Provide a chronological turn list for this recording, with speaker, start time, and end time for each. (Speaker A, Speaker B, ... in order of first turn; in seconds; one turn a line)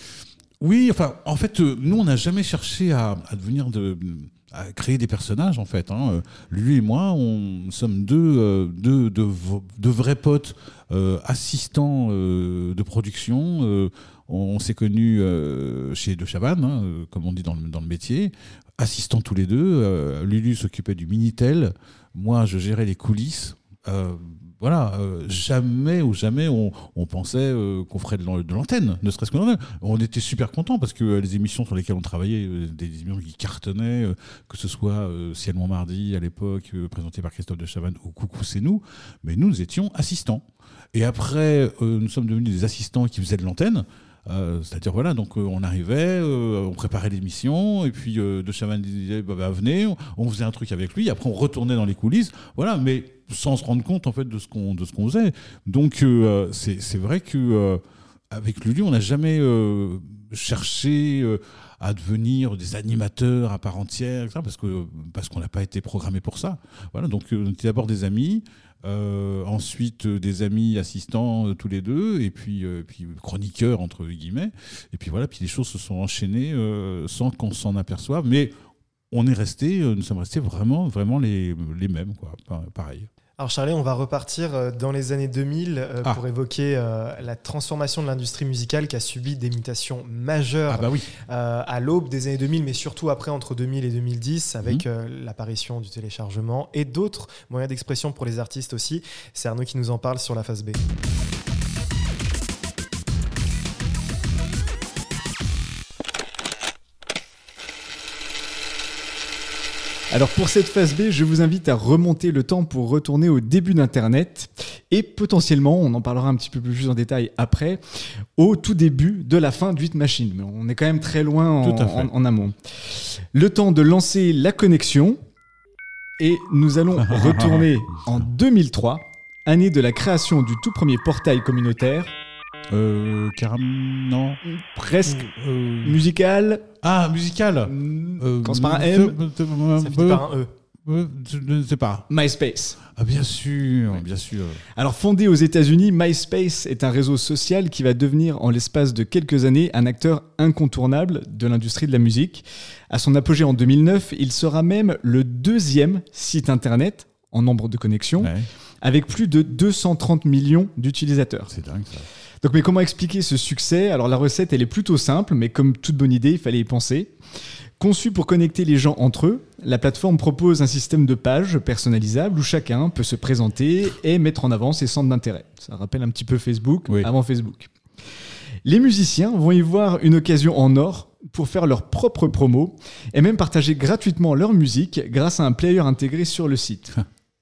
Speaker A: 0.6-78.5
Speaker A: 79.1-83.1
Speaker B: 83.4-100.8
Speaker A: 90.7-91.1
Speaker C: 110.1-117.8
Speaker C: 118.4-125.2
Speaker A: 121.6-122.1
Speaker C: 126.2-132.1
Speaker A: 127.0-128.2
Speaker A: 132.7-134.4
Speaker C: 134.4-135.3
Speaker A: 135.0-136.0
Speaker C: 135.8-136.7
Speaker A: 136.8-140.2
Speaker C: 137.7-139.2
Speaker B: 139.8-140.5
Speaker A: 140.8-142.1
Speaker C: 142.1-142.8
Speaker A: 142.9-144.6
Speaker C: 144.8-161.5
Speaker A: 158.2-158.5
Speaker A: 161.5-162.1
Speaker C: 162.4-167.1
Speaker C: 167.8-177.7
Speaker C: 178.6-187.0